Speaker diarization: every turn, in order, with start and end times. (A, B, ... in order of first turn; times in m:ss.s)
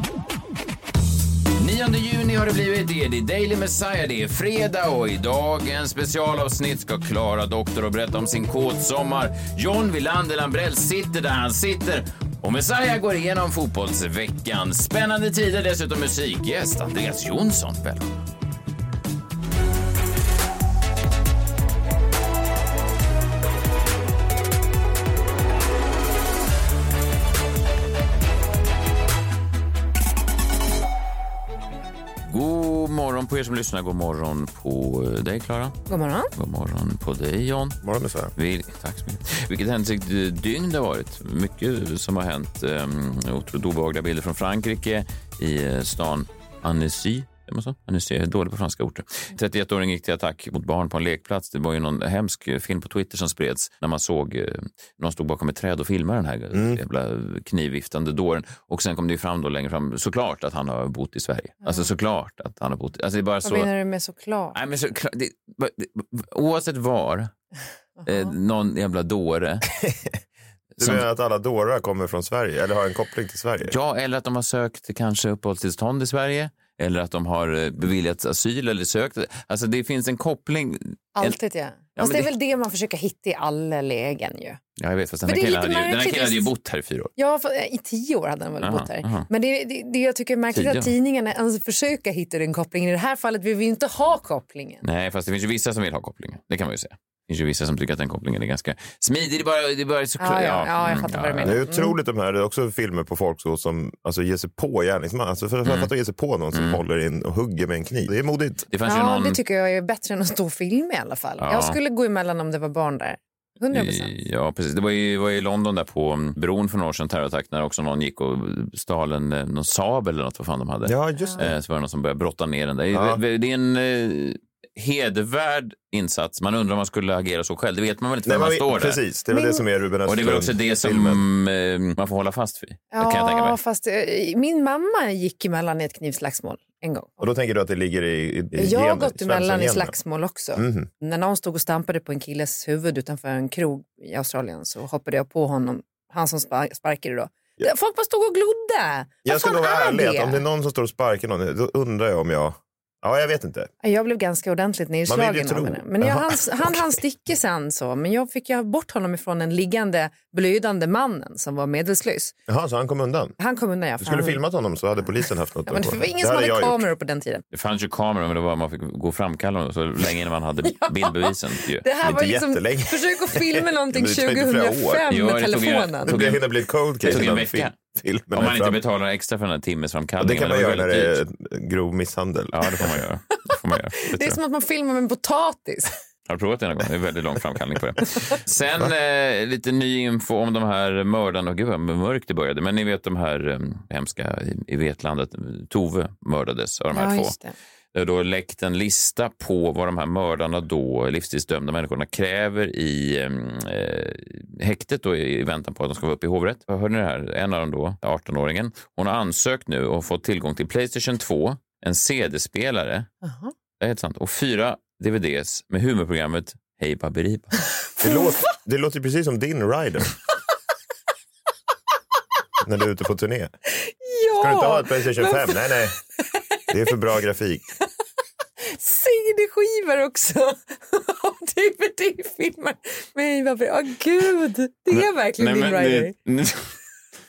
0:01.6-0:18.1 A
0:32.3-0:35.8 A
0:35.9-0:36.3 B
0:36.3-0:37.8 A
0:37.8-0:38.3 C
0:38.4-1:03.7 A
0:56.5-0:56.8 C
1:01.6-1:01.9 B
1:03.4-1:04.6 B
1:04.5-1:07.3 A
1:08.0-1:08.3 B
1:08.0-1:09.6 A
1:10.8-1:13.7 C
1:10.8-1:11.0 A
1:13.6-1:21.4 A
1:21.2-1:24.6 B
1:22.0-1:22.3 A
1:24.8-1:27.1 A
1:25.2-1:26.5 B
1:27.2-1:34.8 B
1:28.6-1:29.3 A
1:30.5-1:30.9 A
1:34.8-1:41.6 A
1:40.2-1:41.9 B
1:41.4-1:48.6 C
1:45.6-1:45.9 A
1:46.5-1:46.8 A
1:48.7-1:49.4 A
1:48.8-1:54.1 B
1:51.4-1:51.8 A
1:53.7-2:09.0 A
2:00.9-2:01.5 C
2:02.9-2:03.2 C
2:08.2-2:11.2 C
2:09.3-2:09.6 B
2:10.0-2:13.6 A
2:12.9-2:17.1 B
2:17.2-2:20.0 C
2:18.6-2:30.4 B
2:20.5-2:20.9 C
2:29.2-2:33.7 C
2:33.8-2:42.3 B
2:35.1-2:37.0 C
2:42.5-2:43.3 C
2:43.4-2:44.4 B
2:44.0-2:46.8 C
2:45.7-2:47.4 B
2:47.5-2:51.8 A
2:50.6-2:56.1 B
2:52.0-2:55.0 C
2:55.1-2:56.4 A
2:56.1-2:58.8 C
2:57.0-2:57.8 A
2:58.3-3:01.2 A
3:00.2-3:02.7 C
3:02.5-3:04.4 A
3:04.1-3:05.9 B
3:06.3-3:17.4 A
3:16.9-3:17.5 B
3:17.9-3:33.1 A
3:33.2-3:33.5 B
3:33.8-3:37.6 A
3:38.0-3:40.1 C
3:42.6-3:43.5 C
3:43.8-3:45.7 B
3:44.4-3:45.9 C
3:46.7-3:47.7 C
3:48.6-3:56.1 B
3:54.9-3:56.8 A